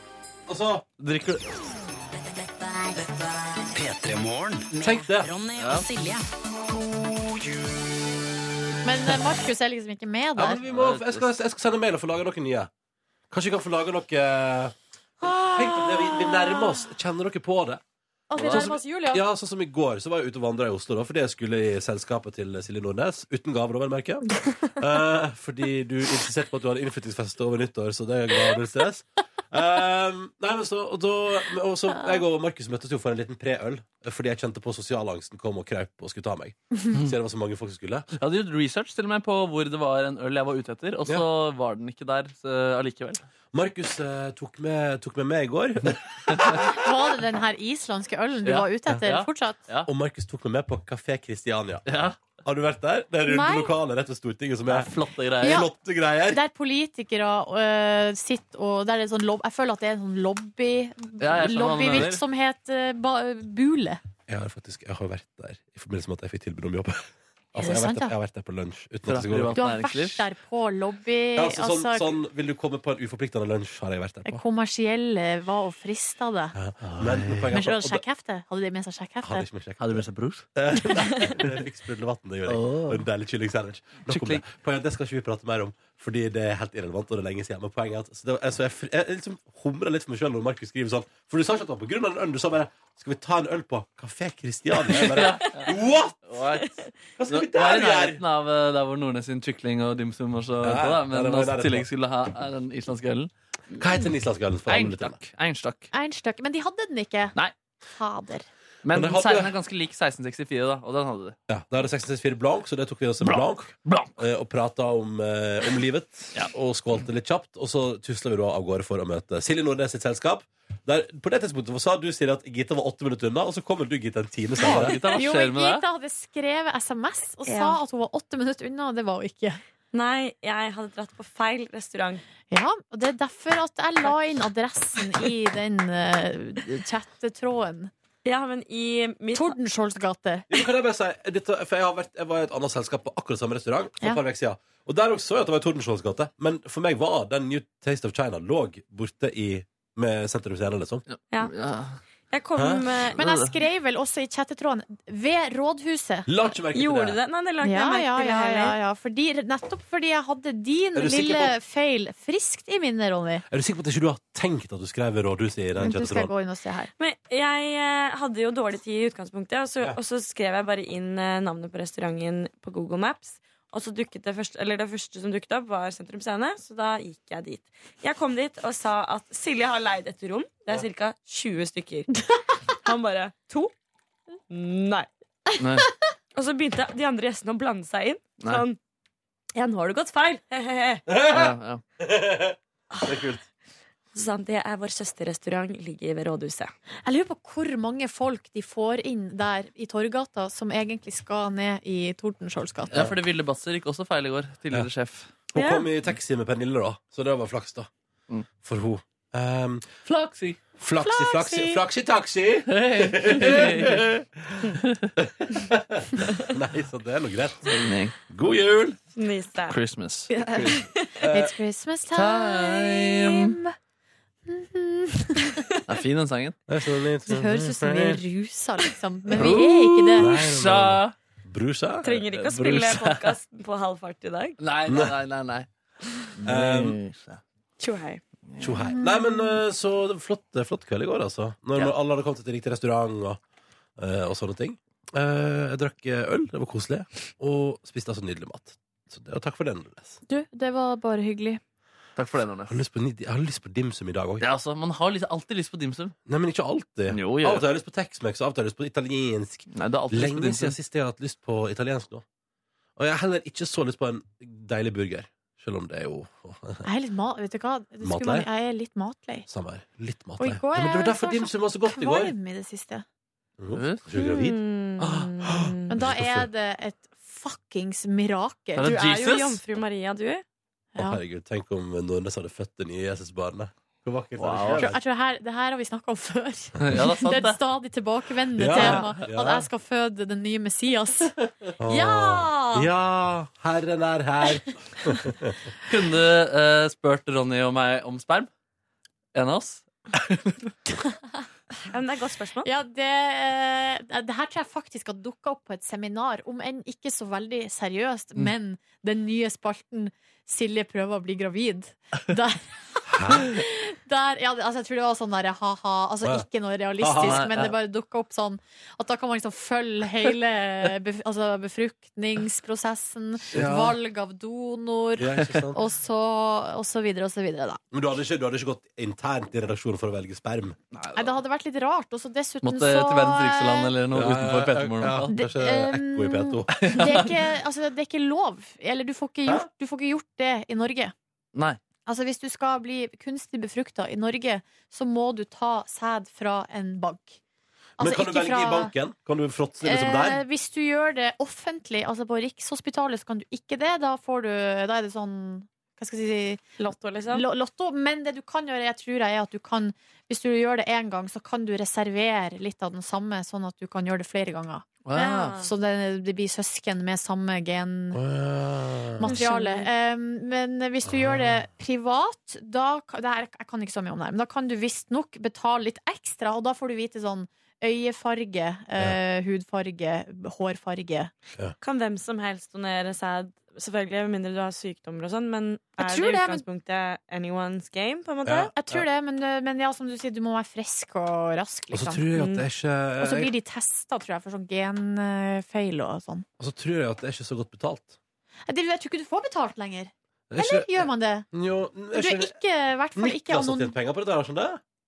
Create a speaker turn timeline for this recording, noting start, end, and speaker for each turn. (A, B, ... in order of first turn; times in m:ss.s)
0:00.5-0:00.9 A
0:01.0-0:01.6 B
0:02.1-0:06.3 C
0:04.8-0:05.3 A
0:05.6-0:05.9 B
0:08.8-0:10.6 D
0:10.4-0:12.7 A
0:10.4-0:11.3 B
0:13.3-0:14.7 A
0:15.2-0:16.8 D
0:15.3-0:17.8 A
0:18.3-0:19.2 D
0:18.4-0:18.7 B
0:18.4-0:38.1 A
0:38.2-0:43.2 B
0:43.5-0:46.7 A
0:46.3-0:46.6 B
0:46.6-0:49.6 D
0:48.4-0:49.9 B
0:49.8-0:51.9 A
0:51.9-0:52.2 B
0:52.4-0:56.4 A
0:53.3-0:53.7 D
0:54.7-0:55.7 B
0:55.4-0:55.7 D
0:56.3-1:04.0 D
1:01.2-1:02.2 B
1:04.3-1:09.6 A
1:07.6-1:08.1 D
1:09.0-1:10.2 B
1:09.6-1:12.1 D
1:11.4-1:14.4 A
1:14.3-1:16.6 D
1:16.6-1:18.0 A
1:16.8-1:17.5 B
1:17.5-1:19.5 D
1:19.2-1:20.0 A
1:19.8-1:20.5 B
1:20.6-1:36.2 A
1:21.2-1:21.6 B
1:22.5-1:23.0 B
1:24.1-1:24.4 B
1:34.9-1:35.7 B
1:36.3-1:43.9 B
1:37.2-1:38.2 A
1:40.6-1:41.9 A
1:43.8-1:45.2 A
1:44.7-1:45.9 B
1:45.9-1:47.4 D
1:48.0-1:48.5 D
1:48.8-1:51.4 B
1:48.9-1:49.5 A
1:51.5-2:05.0 A
1:53.2-1:54.2 B
2:04.6-2:05.8 B
2:04.6-2:09.6 D
2:07.4-2:07.8 E
2:09.9-2:12.2 E
2:12.5-2:17.9 D
2:18.2-2:19.6 E
2:19.3-2:20.5 D
2:20.5-2:31.0 A
2:31.1-2:32.0 B
2:32.3-2:33.2 E
2:32.6-2:32.9 A
2:33.2-2:36.3 D
2:33.2-2:33.5 B
2:36.3-2:37.2 A
2:36.7-2:38.8 E
2:37.6-2:43.4 D
2:41.0-2:41.5 A
2:43.5-2:46.3 A
2:45.8-2:46.9 D
2:47.0-3:02.2 E
3:02.7-3:03.7 E
3:04.5-3:05.1 E
3:05.6-3:05.9 B
3:06.3-3:08.8 E
3:09.6-3:11.0 E
3:11.1-3:13.4 A
3:11.3-3:11.8 B
3:14.1-3:16.7 E
3:17.0-3:22.9 D
3:22.9-3:25.3 B
3:25.5-3:27.9 A
3:25.6-3:25.9 E
3:28.6-3:29.9 A
3:30.0-3:30.6 B
3:30.8-3:34.3 A
3:31.0-3:31.8 D
3:32.7-3:34.0 B
3:34.8-3:35.1 B
3:35.2-3:37.8 A
3:37.7-3:38.1 B
3:38.3-3:39.0 A
3:39.1-3:39.8 E
3:39.7-3:40.8 B
3:40.3-3:41.2 E
3:41.2-3:41.5 A
3:41.3-3:43.7 D
3:42.1-3:43.6 B
3:44.5-3:45.6 D
3:45.9-3:46.6 B
3:46.7-3:48.2 A
3:47.3-3:50.3 D
3:49.3-3:51.1 B
3:50.2-3:52.2 A
3:52.0-3:54.6 E
3:52.1-3:53.3 B
3:54.6-3:57.4 B
3:54.9-3:55.1 A
3:56.4-3:57.0 A
3:57.8-3:58.2 E
3:58.5-3:58.8 B
3:58.6-4:03.4 A
3:58.9-3:59.6 D
4:04.0-4:10.2 A
4:10.3-4:11.6 D
4:12.2-4:12.7 B
4:12.7-4:14.4 A
4:14.4-4:16.1 B
4:16.3-4:22.2 A
4:17.1-4:17.6 B
4:19.7-4:20.8 B
4:23.0-4:26.9 A
4:26.8-4:29.5 D
4:28.0-4:28.5 A
4:29.5-4:32.3 A
4:30.4-4:33.0 D
4:33.6-4:36.5 A
4:33.7-4:34.1 B
4:34.1-4:36.0 E
4:35.9-4:39.0 D
4:38.8-4:39.6 B
4:38.8-4:40.4 E
4:41.0-4:45.0 A
4:44.4-4:44.9 B
4:44.8-4:51.3 D
4:46.8-4:47.6 B
4:48.6-4:49.7 A
4:48.7-4:49.1 B
4:51.8-4:55.6 A
4:51.8-4:52.9 D
4:55.9-4:58.5 B
4:59.3-5:00.7 B
5:01.8-5:02.7 E
5:02.6-5:27.8 D
5:13.1-5:13.5 A
5:17.0-5:17.6 A
5:17.2-5:17.7 B
5:23.5-5:24.0 A
5:25.2-5:25.8 A
5:27.9-5:30.8 A
5:30.9-5:31.3 B
5:31.1-5:33.9 D
5:32.6-5:35.3 B
5:34.1-5:37.2 A
5:35.3-5:41.1 D
5:36.7-5:37.3 B
5:42.0-5:47.4 D
5:48.0-5:48.9 D
5:48.0-5:50.4 A
5:49.8-5:56.6 D
5:56.8-5:57.4 E
5:57.3-6:04.9 D
6:05.0-6:05.5 B
6:05.1-6:05.7 E
6:05.5-6:08.2 D
6:08.1-6:09.3 A
6:09.2-6:21.3 D
6:09.2-6:09.9 E
6:11.0-6:11.5 A
6:21.8-6:28.7 E
6:26.0-6:26.6 D
6:28.4-6:29.0 A
6:28.7-6:32.2 D
6:31.9-6:33.5 A
6:32.3-6:32.7 E
6:33.2-6:36.5 D
6:36.6-6:38.2 A
6:38.7-6:41.5 D
6:40.5-6:42.5 A
6:42.1-6:43.9 D
6:43.1-6:44.8 A